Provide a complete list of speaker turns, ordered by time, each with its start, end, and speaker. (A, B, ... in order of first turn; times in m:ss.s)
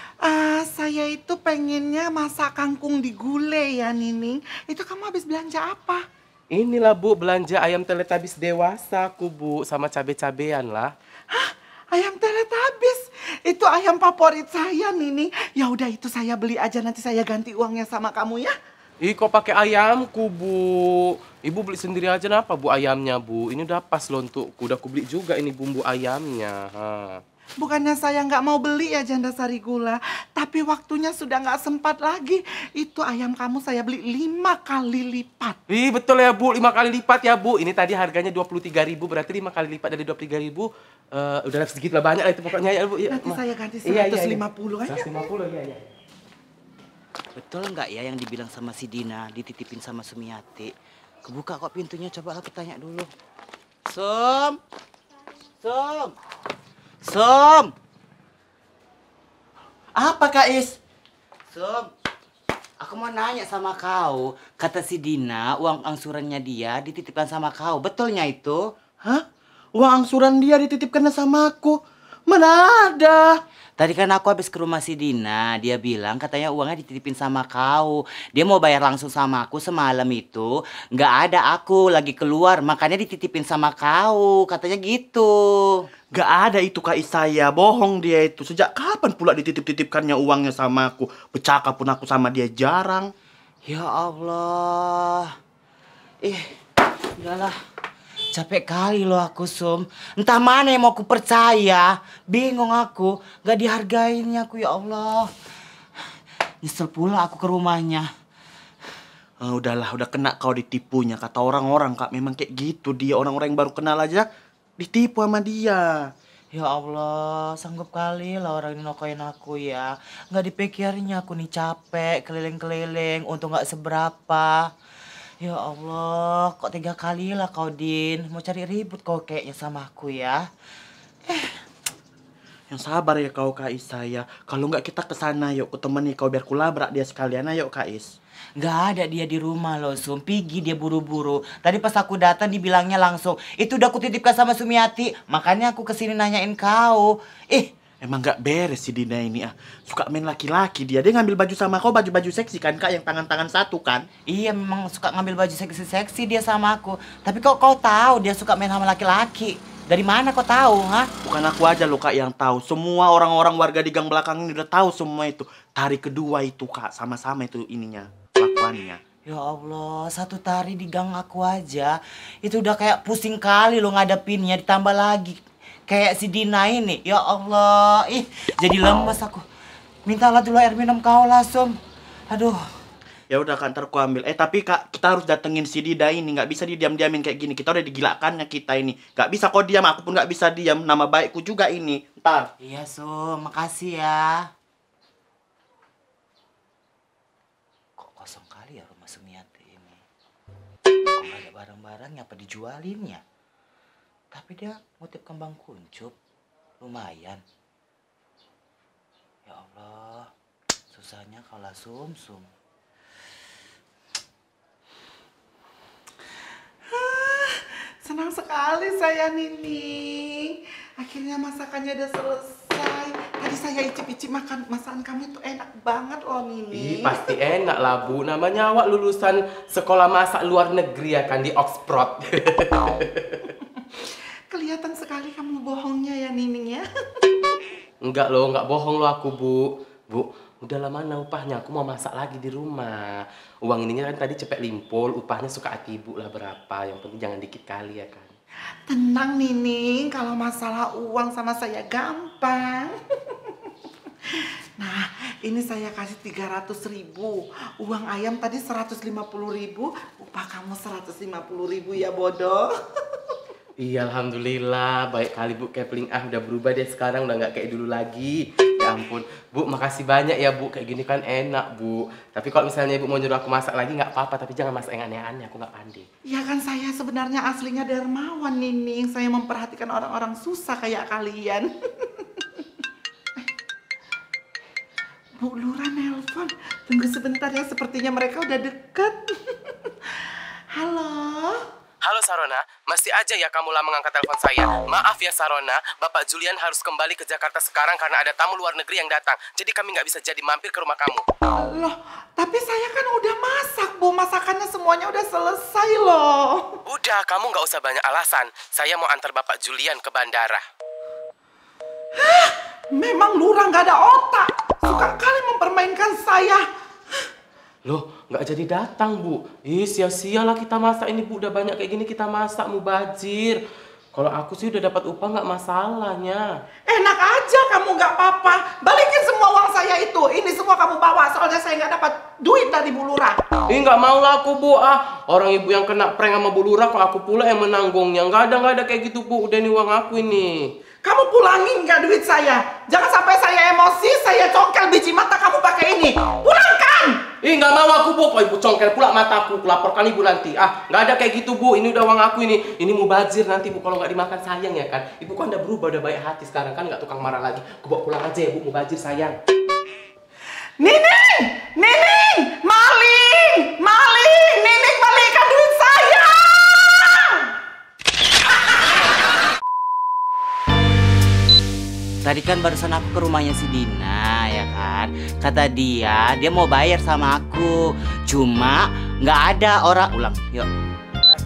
0:00.2-0:06.0 A
0:06.5-0:10.9 B
0:11.3-0:18.5 A
0:19.0-0:27.2 B
0:27.6-0:35.6 A
0:35.7-0:45.9 B
0:43.1-0:45.3 A
0:47.4-0:50.7 C
0:51.2-0:53.1 C
0:53.9-0:54.6 C
0:55.6-0:56.2 C
0:57.0-0:57.7 C
1:00.0-1:00.8 D
1:01.5-1:01.9 C
1:02.8-1:08.7 C
1:09.7-1:13.3 D
1:13.8-1:25.8 C
1:26.1-1:33.1 D
1:33.6-1:35.3 C
1:37.2-1:37.5 C
1:38.3-1:45.3 C
1:46.6-1:48.1 C
1:49.4-1:54.3 D
1:54.8-1:56.0 D
1:56.5-2:04.7 C
2:05.4-2:10.4 C
2:12.7-2:18.1 D
2:18.6-2:27.7 C
2:28.0-2:34.0 D
2:34.3-2:41.1 C
2:41.2-2:49.0 D
2:49.3-2:55.4 C
2:55.9-2:59.4 C
3:00.0-3:01.8 C
3:02.3-3:02.6 C
3:03.3-3:12.5 D
3:12.6-3:14.5 C
3:18.0-3:20.0 C
3:21.2-3:23.2 C
3:24.3-3:26.1 C
3:26.8-3:27.4 C
3:29.5-3:30.3 C
3:30.9-3:32.5 C
3:36.9-3:47.3 A
3:46.7-3:53.4 B
3:54.5-3:56.8 A
3:58.0-4:08.3 B
4:08.9-4:12.9 A
4:14.4-4:22.7 A
4:23.8-4:36.0 B
4:36.2-4:42.2 A
4:45.4-4:49.6 A
4:50.7-4:51.6 A
4:52.0-5:01.2 B
5:01.6-5:06.6 A
5:06.9-5:10.6 B
5:12.2-5:16.6 A
5:17.8-5:23.6 B
5:24.1-5:26.4 B
5:26.9-5:33.4 A
5:33.7-5:40.7 B
5:41.0-5:47.2 A
5:47.4-5:59.4 B
6:00.8-6:07.5 A
6:12.2-6:20.7 C